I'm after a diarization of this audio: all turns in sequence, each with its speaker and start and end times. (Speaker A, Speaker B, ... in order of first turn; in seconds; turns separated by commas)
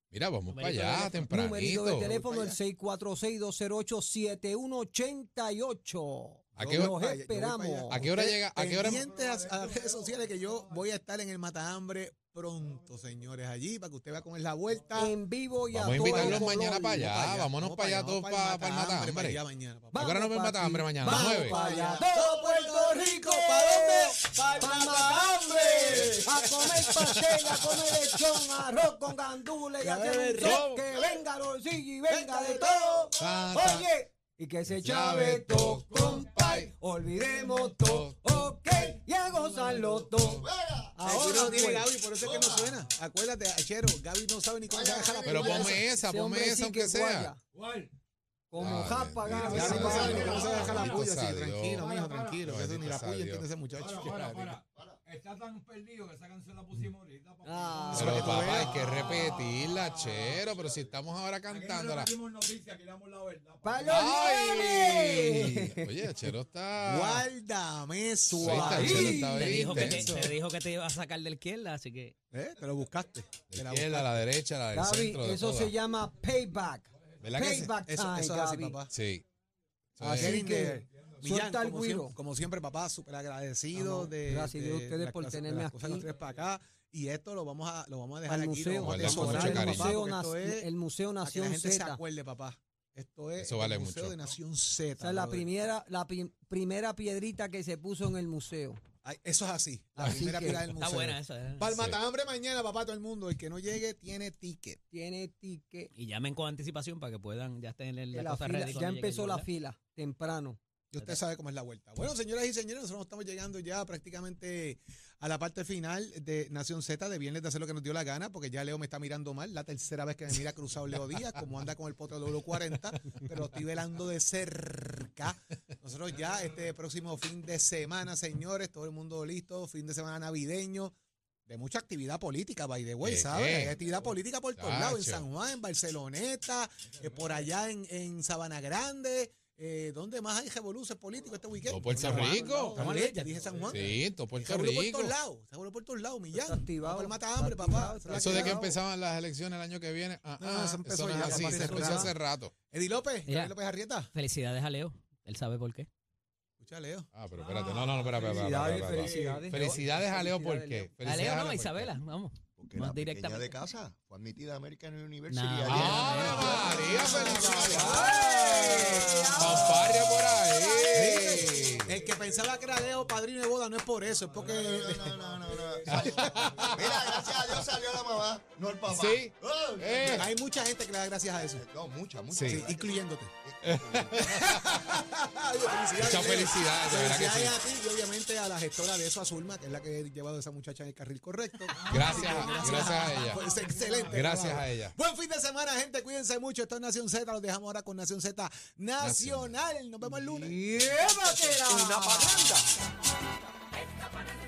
Speaker A: 0.1-2.1, Speaker B: 0.5-1.2, Speaker C: 1.3-8.1, Speaker D: 2.0-2.6, Speaker A: 6.6-6.9, Speaker D: 6.6-15.2, Speaker A: 7.9-9.1, Speaker E: 8.9-10.8, Speaker C: 14.9-17.1, Speaker A: 15.7-19.4, Speaker D: 15.9-20.1, Speaker C: 19.9-41.9, Speaker A: 19.9-21.6, Speaker D: 21.0-26.9, Speaker A: 26.7-27.5, Speaker D: 29.8-31.1, Speaker A: 30.4-30.8, Speaker D: 32.1-33.2, Speaker A: 33.2-33.9, Speaker A: 34.7-36.7, Speaker A: 37.7-38.6, Speaker E: 39.6-39.9, Speaker F: 40.1-41.5, Speaker D: 41.0-45.8, Speaker F: 42.2-42.8, Speaker F: 44.6-45.8, Speaker A: 45.2-47.3, Speaker C: 45.6-47.4, Speaker E: 47.5-47.9, Speaker C: 48.5-50.7, Speaker A: 48.6-51.9, Speaker D: 49.3-54.6, Speaker E: 49.4-51.0, Speaker F: 49.8-50.7, Speaker E: 51.8-52.4, Speaker A: 52.4-53.5, Speaker E: 53.8-60.4, Speaker F: 54.7-55.0, Speaker C: 57.4-58.4, Speaker D: 57.9-59.0, Speaker A: 57.9-62.2, Speaker F: 60.6-61.0, Speaker E: 61.5-64.1, Speaker C: 63.6-66.1, Speaker A: 63.9-67.2, Speaker D: 66.8-69.2, Speaker C: 68.3-70.0, Speaker A: 68.4-70.3, Speaker B: 68.9-72.1, Speaker D: 72.3-74.2, Speaker A: 73.5-75.7, Speaker C: 74.7-78.8, Speaker A: 77.2-77.7, Speaker D: 77.4-78.9, Speaker A: 78.9-79.2, Speaker A: 80.0-80.3, Speaker C: 80.0-82.2, Speaker D: 80.1-90.7, Speaker C: 83.7-86.1, Speaker C: 88.2-92.0, Speaker A: 88.8-89.9, Speaker D: 91.2-95.5, Speaker A: 93.4-94.2, Speaker C: 95.0-98.8, Speaker D: 99.0-104.8, Speaker C: 100.0-100.7, Speaker B: 100.7-101.7, Speaker A: 101.7-102.0, Speaker C: 104.9-105.9, Speaker B: 105.9-109.5, Speaker C: 108.1-110.6, Speaker D: 110.9-130.9, Speaker D: 131.5-148.7, Speaker A: 133.0-133.8, Speaker A: 134.6-135.3, Speaker A: 141.7-142.8, Speaker F: 142.2-142.7, Speaker B: 142.7-143.3, Speaker A: 143.7-145.2, Speaker C: 146.3-148.8, Speaker A: 148.1-152.5, Speaker D: 150.4-152.1, Speaker C: 151.3-152.1, Speaker D: 152.7-154.1, Speaker B: 153.2-153.5, Speaker B: 154.1-155.9, Speaker D: 156.6-157.1, Speaker A: 157.1-161.9, Speaker E: 157.5-159.4, Speaker C: 158.2-160.9, Speaker B: 161.0-163.6, Speaker F: 162.6-168.9, Speaker B: 165.3-166.8, Speaker A: 165.6-171.9, Speaker C: 166.4-171.3, Speaker D: 169.4-169.8, Speaker D: 170.9-175.2, Speaker E: 171.9-173.1, Speaker E: 174.2-176.9, Speaker F: 174.5-180.3, Speaker A: 175.9-177.7, Speaker A: 178.9-180.3, Speaker D: 180.1-181.6, Speaker F: 181.5-184.4, Speaker A: 182.3-182.7, Speaker D: 182.4-183.3, Speaker A: 183.6-184.6, Speaker D: 184.2-200.6, Speaker A: 185.9-187.6, Speaker E: 191.7-194.3, Speaker A: 191.8-193.4, Speaker C: 192.7-193.1, Speaker A: 194.1-194.9, Speaker A: 199.0-199.5, Speaker C: 200.2-202.7, Speaker D: 201.7-202.4